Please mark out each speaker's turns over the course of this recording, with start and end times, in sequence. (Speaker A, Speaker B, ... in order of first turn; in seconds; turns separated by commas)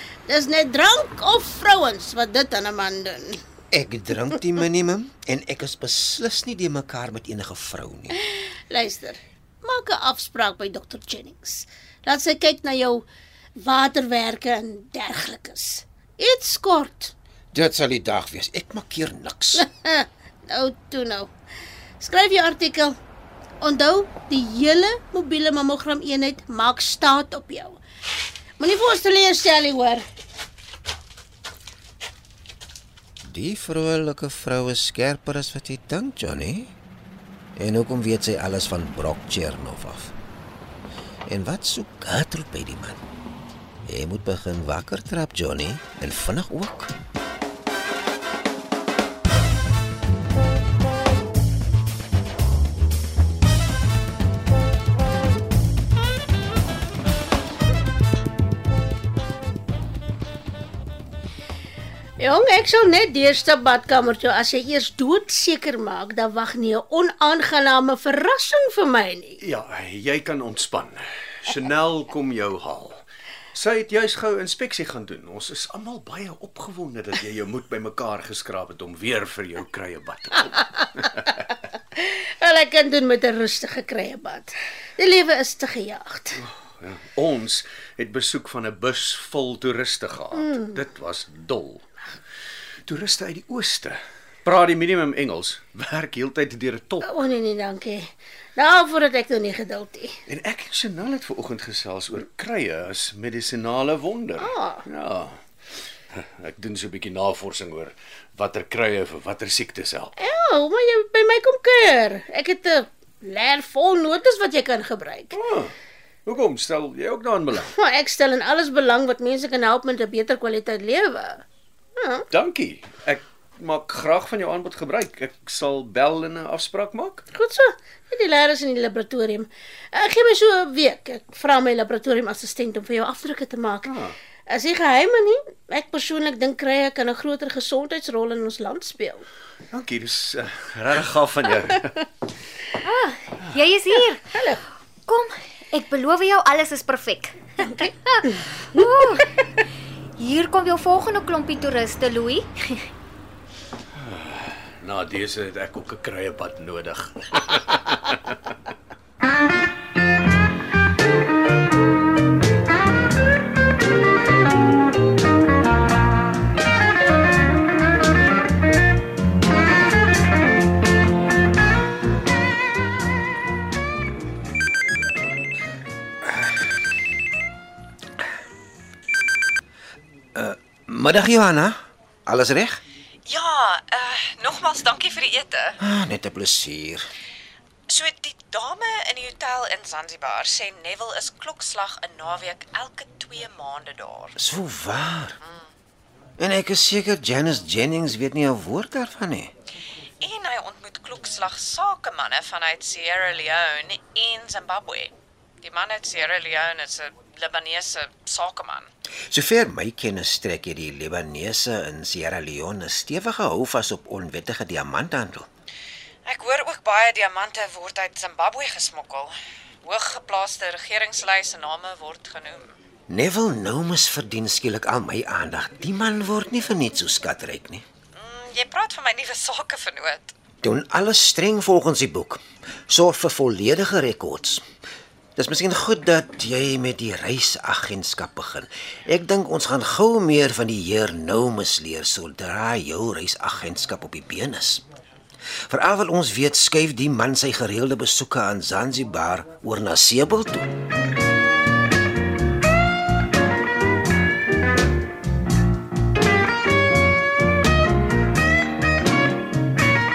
Speaker A: 0.2-3.4, Speaker B: 3.7-8.2, Speaker A: 8.2-13.1, Speaker A: 13.6-17.1, Speaker B: 17.5-19.7, Speaker A: 19.6-21.3, Speaker A: 22.0-22.9, Speaker A: 23.6-27.8, Speaker A: 28.6-30.0, Speaker B: 33.2-36.7, Speaker B: 37.6-40.1, Speaker B: 41.3-43.0, Speaker B: 43.9-46.9, Speaker A: 62.2-69.4, Speaker C: 69.4-73.0, Speaker C: 73.5-81.4, Speaker A: 82.0-86.4, Speaker C: 86.4-91.8, Speaker A: 90.4-90.7, Speaker C: 92.9-97.1, Speaker A: 97.0-100.1, Speaker C: 100.3-105.3, Speaker A: 104.4-104.8, Speaker C: 106.2-110.1, Speaker A: 110.2-115.4, Speaker C: 115.3-115.7, Speaker C: 116.2-117.7, Speaker A: 117.7-121.4, Speaker A: 122.0-122.2, Speaker C: 122.3-127.2, Speaker A: 127.3-133.9, Speaker C: 133.8-134.1, Speaker A: 134.5-139.2, Speaker C: 139.7-142.1, Speaker D: 142.8-144.4, Speaker A: 144.3-144.6, Speaker D: 145.1-149.6, Speaker D: 150.2-152.9, Speaker C: 154.0-158.5, Speaker B: 180.3-182.8, Speaker E: 183.2-185.8, Speaker B: 185.8-187.1, Speaker E: 187.9-194.4, Speaker B: 194.4-195.4, Speaker E: 195.4-195.7, Speaker B: 196.4-199.5, Speaker E: 200.2-208.9, Speaker B: 209.3-215.5, Speaker E: 216.2-222.7, Speaker B: 223.1-227.8, Speaker E: 228.2-230.3, Speaker B: 230.6-234.6, Speaker B: 235.4-244.8, Speaker B: 245.7-250.7